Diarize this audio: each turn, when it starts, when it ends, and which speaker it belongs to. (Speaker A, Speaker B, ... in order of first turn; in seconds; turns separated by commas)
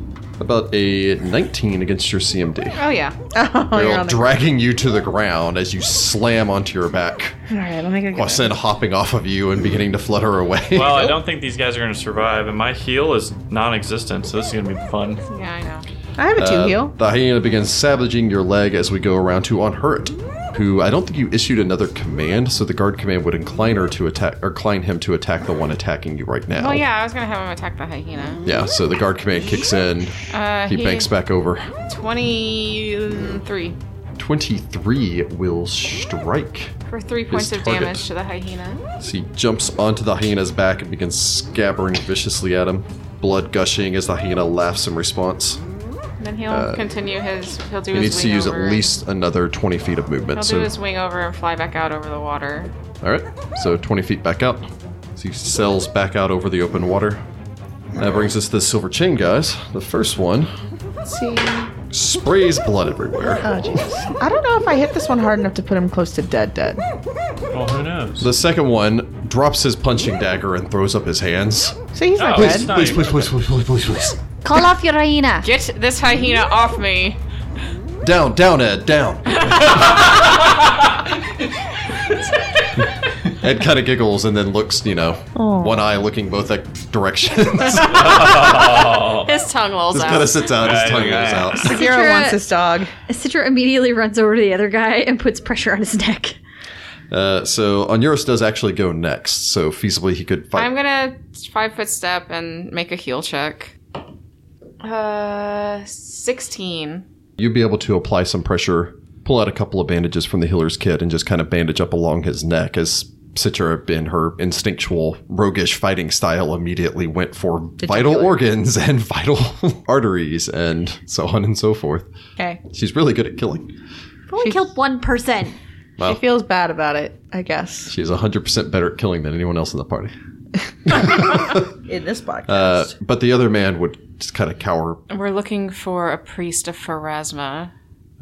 Speaker A: 0.4-2.8, Speaker B: 2.8-3.2, Speaker C: 3.3-4.2, Speaker A: 3.7-7.4, Speaker C: 7.5-8.5, Speaker A: 8.1-11.2, Speaker D: 10.7-15.2, Speaker B: 15.3-15.8, Speaker C: 16.2-16.9, Speaker A: 16.4-26.9, Speaker B: 26.6-28.4, Speaker A: 28.4-31.7, Speaker B: 30.3-31.1, Speaker B: 31.9-33.8, Speaker A: 34.2-36.7, Speaker B: 36.9-38.8, Speaker A: 37.3-38.0, Speaker A: 39.0-45.6, Speaker B: 46.2-48.9, Speaker A: 46.5-46.8, Speaker A: 47.9-50.7, Speaker B: 50.4-52.7, Speaker A: 53.0-57.2, Speaker A: 58.0-60.5, Speaker C: 61.0-61.7, Speaker A: 61.9-63.8, Speaker C: 63.4-66.8, Speaker D: 67.5-68.3, Speaker A: 68.2-71.8, Speaker C: 71.9-72.7, Speaker D: 72.2-73.3, Speaker A: 72.3-74.2, Speaker E: 74.4-75.5, Speaker B: 75.4-77.2, Speaker A: 78.0-80.1, Speaker B: 79.5-80.0, Speaker A: 83.3-88.6, Speaker C: 85.4-85.8, Speaker D: 87.8-89.3, Speaker B: 89.1-90.5, Speaker A: 89.9-91.8, Speaker D: 90.5-91.7, Speaker C: 91.6-92.9, Speaker E: 91.7-92.4, Speaker E: 93.1-96.4, Speaker A: 97.1-100.7, Speaker B: 100.5-103.8, Speaker B: 104.8-107.0, Speaker A: 107.4-122.1, Speaker C: 117.8-118.3, Speaker A: 122.7-123.7, Speaker E: 124.3-125.6, Speaker C: 126.0-127.9, Speaker A: 127.9-130.1, Speaker A: 130.9-131.7, Speaker C: 130.9-132.9, Speaker A: 132.5-135.0, Speaker B: 135.1-137.7